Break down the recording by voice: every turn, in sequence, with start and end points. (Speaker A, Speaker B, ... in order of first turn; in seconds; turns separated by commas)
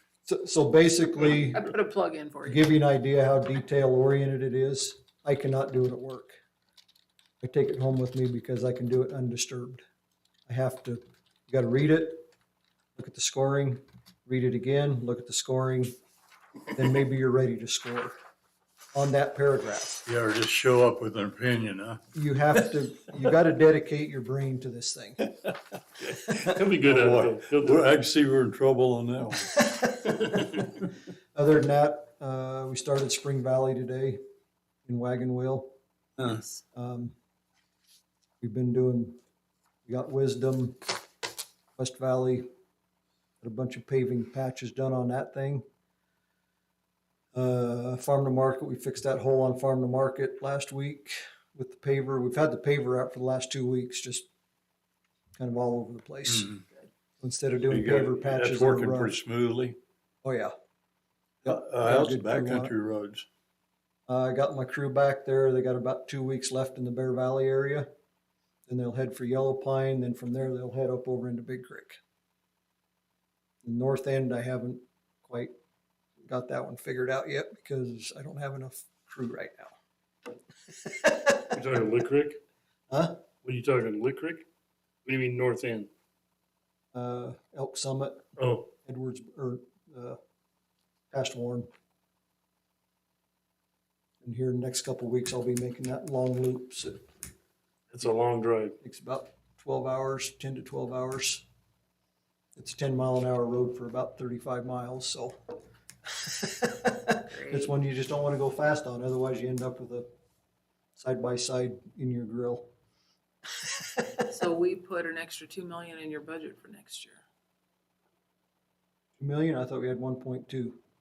Speaker A: 0.2-1.6, Speaker B: 1.3-2.7, Speaker A: 2.4-6.4, Speaker A: 7.4-9.8, Speaker A: 10.5-12.3, Speaker A: 12.9-15.9, Speaker A: 16.7-18.1, Speaker A: 18.9-20.0, Speaker C: 20.1-22.0, Speaker A: 22.1-25.2, Speaker C: 26.0-29.6, Speaker D: 26.4-27.9, Speaker A: 29.6-30.8, Speaker A: 31.3-34.2, Speaker A: 34.8-35.7, Speaker C: 36.2-36.5, Speaker A: 36.7-37.1, Speaker A: 38.4-39.2, Speaker A: 39.9-40.8, Speaker A: 41.8-42.5, Speaker A: 43.4-45.6, Speaker A: 47.3-54.3, Speaker A: 55.4-56.5, Speaker C: 56.3-56.6, Speaker A: 57.2-59.1, Speaker C: 57.7-59.8, Speaker A: 60.2-60.5, Speaker A: 61.4-62.7, Speaker C: 61.4-63.2, Speaker A: 64.1-67.9, Speaker A: 68.7-72.0, Speaker A: 73.6-75.5, Speaker A: 76.2-79.7, Speaker A: 80.8-81.5, Speaker D: 81.5-82.4, Speaker A: 82.9-83.2, Speaker D: 83.4-84.5, Speaker D: 85.0-85.9, Speaker A: 86.9-88.3, Speaker D: 88.4-88.7, Speaker A: 88.8-90.2, Speaker A: 91.1-91.7, Speaker A: 94.2-97.0, Speaker D: 97.9-98.8, Speaker A: 98.8-101.5, Speaker A: 102.5-105.4, Speaker A: 106.1-110.1, Speaker B: 107.2-107.7, Speaker A: 111.0-112.7, Speaker B: 114.3-117.2, Speaker A: 119.2-120.8